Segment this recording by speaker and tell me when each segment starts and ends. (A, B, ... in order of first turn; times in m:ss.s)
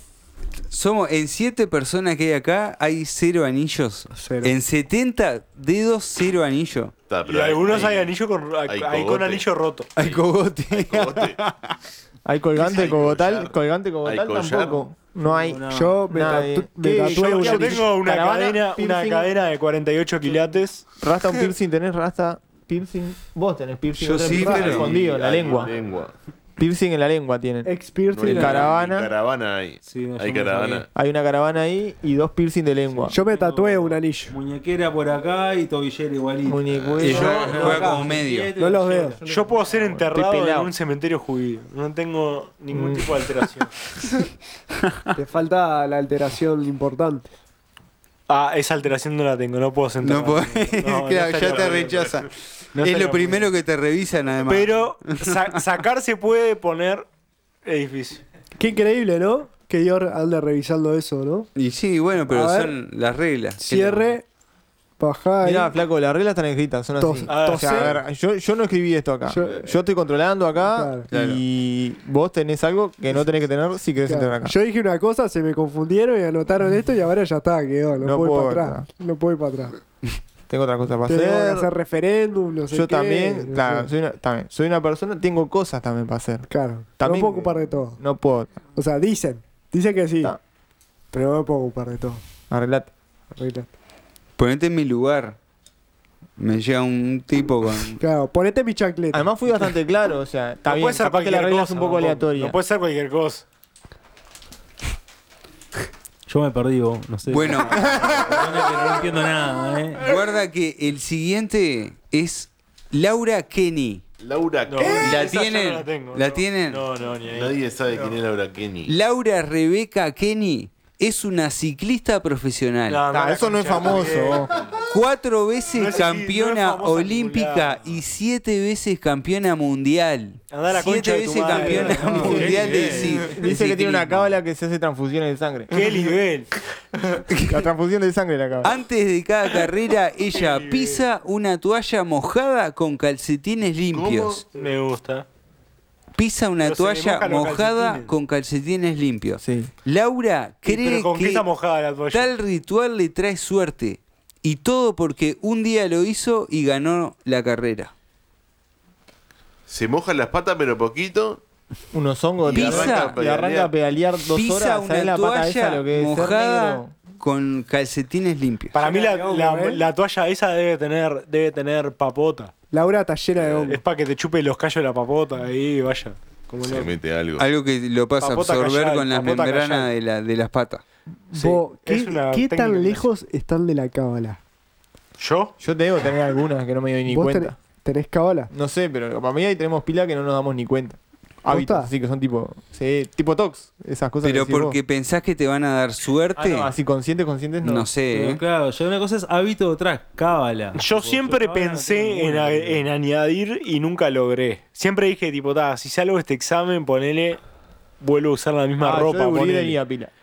0:00.7-0:06.9 A
0:04.1-0:04.5 B
0:07.1-0:08.1 C
0:07.2-0:09.9 D
0:08.7-0:09.4 C
0:10.0-0:11.7 A
0:10.0-0:11.4 C
0:12.2-0:19.3 E
0:12.6-0:14.9 C
0:12.7-0:13.1 D
0:15.2-0:16.0 F
0:15.7-0:17.9 B
0:17.0-0:20.8 D
0:21.0-0:25.7 E
0:24.0-0:24.9 A
0:24.3-0:26.1 C
0:26.6-0:27.7 E
0:27.6-0:28.6 B
0:28.1-0:30.8 C
0:28.2-0:29.1 E
0:29.8-0:30.8 F
0:30.9-0:33.2 E
0:32.9-0:39.3 F
0:33.1-0:34.4 B
0:36.4-0:37.8 E
0:36.7-0:37.1 C
0:37.0-0:38.5 A
0:37.5-0:38.0 B
0:38.6-0:39.2 B
0:39.2-0:40.7 E
0:39.2-0:43.7 D
0:42.7-0:43.1 E
0:45.1-0:47.3 B
0:48.3-0:52.2 D
0:50.0-0:55.4 A
0:52.7-0:53.5 D
0:54.4-0:57.0 D
0:57.6-0:58.2 D
0:58.6-1:01.5 B
1:01.5-1:04.1 A
1:02.3-1:02.7 B
1:03.6-1:04.2 B
1:05.0-1:05.7 B
1:05.4-1:14.6 E
1:07.0-1:08.0 B
1:07.3-1:08.0 D
1:09.3-1:09.8 B
1:10.6-1:11.1 B
1:11.1-1:11.4 A
1:14.1-1:19.8 B
1:18.0-1:18.9 E
1:20.5-1:21.7 E
1:21.0-1:23.9 B
1:22.7-1:28.5 E
1:26.5-1:28.0 B
1:28.7-1:30.3 B
1:31.1-1:32.2 B
1:32.5-1:32.9 E
1:33.3-1:33.7 B
1:34.4-1:35.4 A
1:36.4-1:38.0 A
1:38.0-1:39.3 B
1:39.1-1:42.6 E
1:40.6-1:43.4 D
1:46.3-1:50.1 F
1:47.3-1:48.0 A
1:47.8-1:48.5 E
1:50.0-1:54.0 A
1:54.2-1:55.3 C
1:54.7-1:57.5 D
1:54.9-1:56.8 A
1:57.3-1:58.9 C
1:57.9-1:58.2 E
1:58.9-2:03.0 A
2:02.9-2:04.5 D
2:03.1-2:04.5 E
2:04.9-2:14.3 A
2:05.7-2:08.0 D
2:10.5-2:13.0 D
2:11.4-2:16.1 E
2:12.2-2:13.3 F
2:15.7-2:16.5 D
2:17.3-2:17.7 A
2:17.3-2:18.7 E
2:18.6-2:24.4 A
2:20.3-2:21.1 D
2:23.9-2:24.4 C
2:24.5-2:25.2 D
2:26.1-2:31.4 A
2:26.6-2:28.1 D
2:29.4-2:29.7 E
2:30.6-2:32.3 D
2:32.1-2:37.9 A
2:39.7-2:41.4 C
2:41.9-2:46.9 E
2:42.4-2:43.7 C
2:42.5-2:43.2 A
2:44.3-2:48.8 A
2:48.7-2:52.5 D
2:48.8-2:49.8 B
2:52.7-2:53.8 B
2:53.4-2:53.7 C
2:53.7-2:56.9 D
2:56.6-2:57.4 C
2:57.4-3:00.8 A
2:58.2-2:59.9 D
3:01.3-3:04.4 B
3:01.3-3:03.0 D
3:05.2-3:05.5 D
3:05.6-3:07.5 E
3:07.1-3:08.5 B
3:08.5-3:14.8 E
3:11.5-3:11.9 B
3:14.2-3:16.7 A
3:16.3-3:17.9 E
3:17.6-3:18.4 A
3:18.1-3:22.8 F
3:20.8-3:27.4 D
3:28.0-3:29.8 D
3:28.8-3:30.1 E